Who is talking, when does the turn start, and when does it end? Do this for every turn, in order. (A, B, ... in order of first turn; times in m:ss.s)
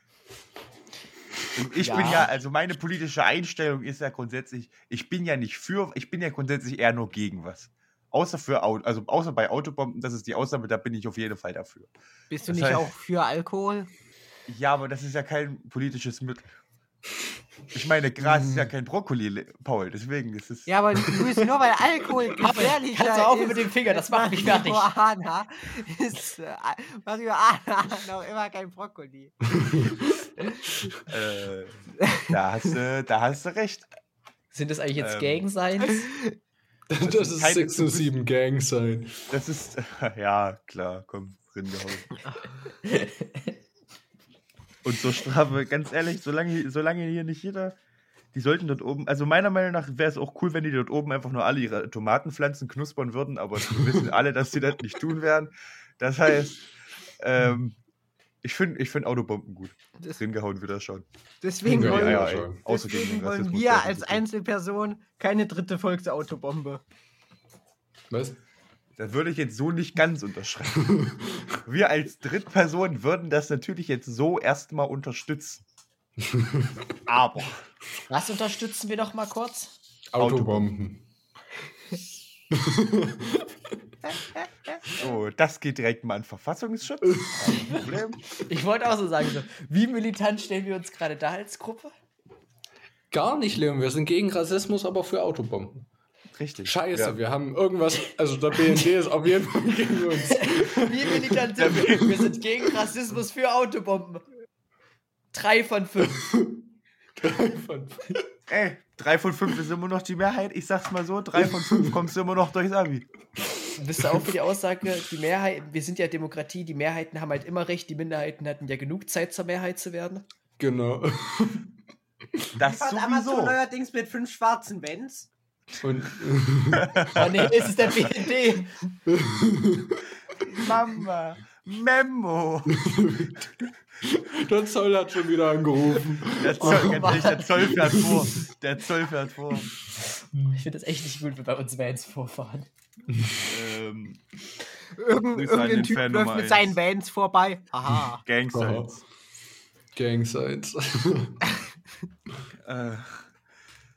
0:01.6-0:11.9 A
0:01.7-0:02.3 B
0:12.3-0:13.9 C
0:12.5-0:12.9 A
0:14.5-0:16.5 A
0:17.7-0:21.1 A
0:18.2-0:18.7 D
0:20.7-0:29.4 C
0:22.4-0:24.9 B
0:29.6-0:30.1 D
0:31.1-0:33.9 A
0:34.5-0:36.1 B
0:35.0-0:35.4 A
0:35.9-0:36.4 C
0:36.9-0:39.3 D
0:37.0-0:38.1 A
0:39.3-0:42.2 A
0:42.8-0:43.5 B
0:44.8-0:47.8 A
0:48.3-0:56.7 A
0:57.2-0:57.8 A
0:58.4-1:01.0 A
1:01.4-1:06.8 C
1:01.6-1:02.6 D
1:01.6-1:04.2 A
1:08.1-1:08.4 D
1:09.0-1:11.0 A
1:10.9-1:11.3 D
1:11.5-1:15.6 A
1:16.2-1:16.7 D
1:17.0-1:17.6 A
1:18.1-1:19.7 B
1:20.1-1:21.0 D
1:20.2-1:20.6 A
1:22.5-1:23.5 D
1:24.7-1:28.4 A
1:27.4-1:31.9 B
1:33.1-1:35.9 D
1:36.4-1:37.2 A
1:36.6-1:41.4 D
1:40.2-1:44.2 B
1:41.6-1:42.3 A
1:45.3-1:46.3 B
1:46.2-1:48.3 D
1:48.5-1:53.1 A
1:51.4-1:52.0 D
1:53.8-2:00.2 B
1:54.0-1:54.2 D
2:00.6-2:01.7 D
2:02.6-2:03.6 A
2:02.6-2:05.3 C
2:05.8-2:06.9 D
2:06.7-2:07.7 A
2:07.1-2:08.7 B
2:09.1-2:10.0 D
2:10.4-2:12.8 A
2:12.7-2:13.5 D
2:14.0-2:18.4 D
2:16.3-2:19.7 A
2:16.6-2:17.6 B
2:20.3-2:20.6 D
2:20.5-2:22.7 B
2:23.4-2:24.2 A
2:25.0-2:28.2 C
2:25.3-2:26.7 A
2:28.2-2:29.0 A
2:28.5-2:29.0 D
2:29.9-2:31.4 D
2:32.6-2:33.3 A